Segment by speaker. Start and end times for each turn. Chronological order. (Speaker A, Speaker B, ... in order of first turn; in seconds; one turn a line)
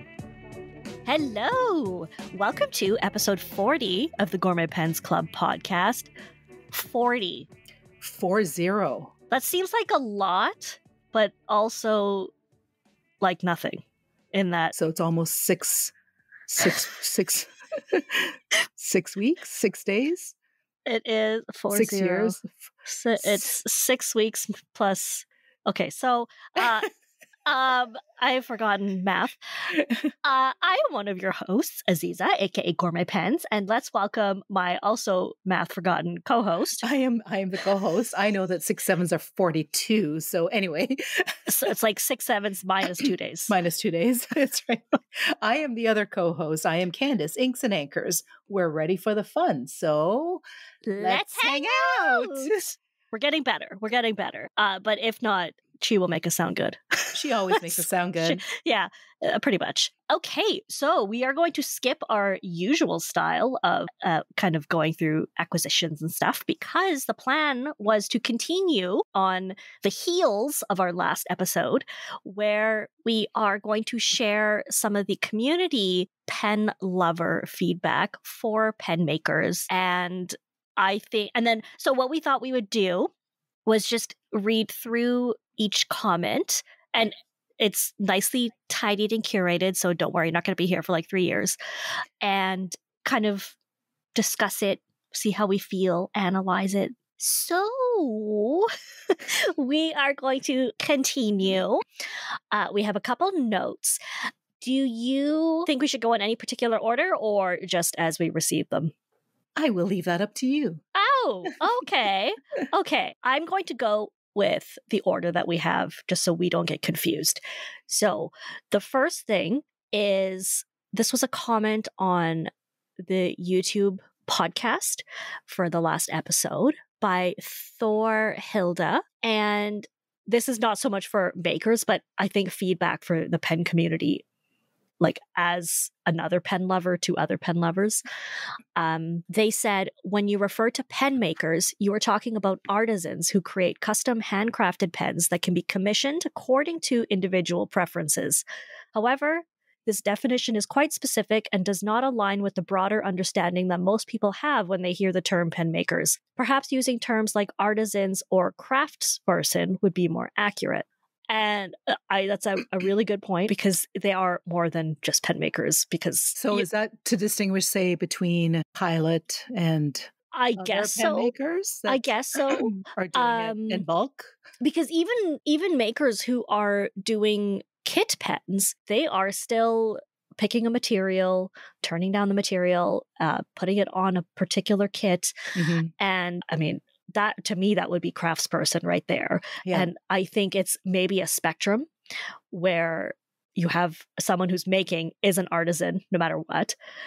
Speaker A: 1.0-6.1
Speaker A: 6.7-7.5
Speaker B: 8.0-9.1
Speaker A: 9.3-12.3
Speaker A: 13.2-14.7
Speaker B: 14.7-15.9
Speaker B: 16.5-20.3
Speaker A: 20.9-26.9
Speaker B: 21.7-22.6
Speaker B: 23.2-23.5
Speaker A: 27.4-29.4
Speaker A: 30.2-36.9
Speaker B: 36.8-41.3
Speaker A: 41.5-43.5
Speaker B: 43.5-50.4
Speaker A: 50.8-83.1
Speaker B: 51.0-52.6
Speaker B: 57.1-58.4
Speaker A: 83.7-91.6
Speaker A: 92.2-93.5
Speaker A: 94.1-101.8
Speaker A: 102.5-104.0
Speaker A: 104.6-108.9
Speaker B: 109.6-110.8
Speaker A: 110.9-122.5
Speaker A: 123.0-134.2
Speaker A: 135.0-138.0
Speaker A: 138.8-166.7
Speaker B: 166.3-174.3
Speaker A: 170.3-171.3
Speaker A: 171.9-173.8
Speaker A: 174.6-185.3
Speaker B: 185.5-185.9
Speaker A: 186.0-191.9
Speaker A: 192.5-196.8